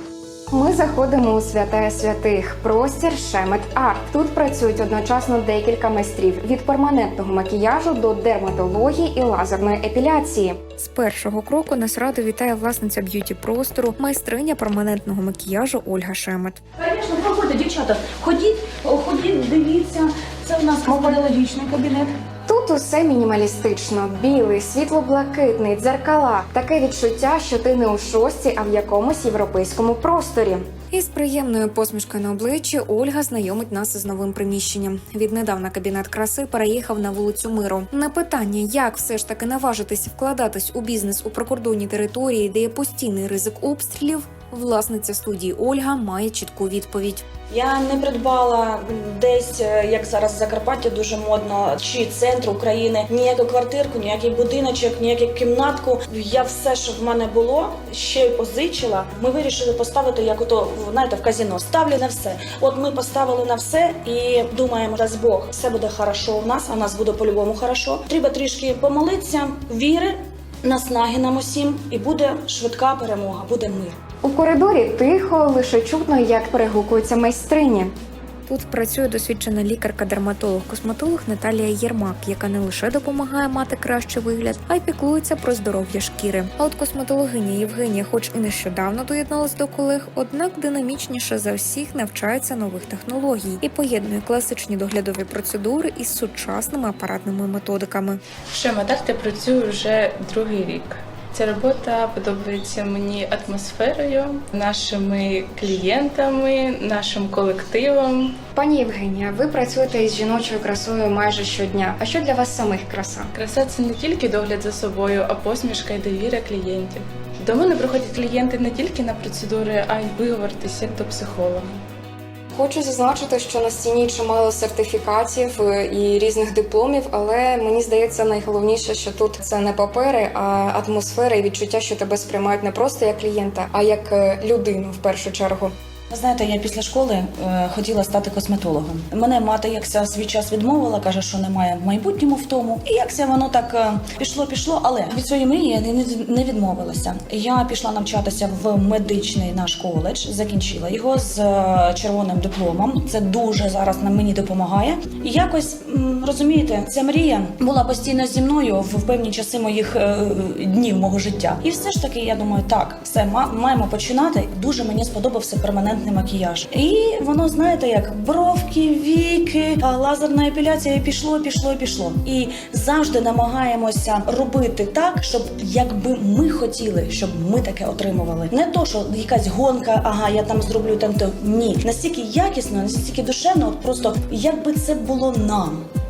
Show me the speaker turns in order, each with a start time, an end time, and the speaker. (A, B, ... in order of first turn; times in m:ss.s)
0:00.5-0:16.6 A
0:16.8-0:22.1 B
0:20.9-0:21.2 A
0:22.5-0:47.2 A
0:47.5-1:14.0 B
1:14.2-1:17.9 A
1:18.5-1:38.2 A
1:38.5-1:48.4 C
1:48.5-1:53.3 A
1:53.3-2:01.7 C
2:02.5-2:15.7 A
2:16.1-3:05.8 B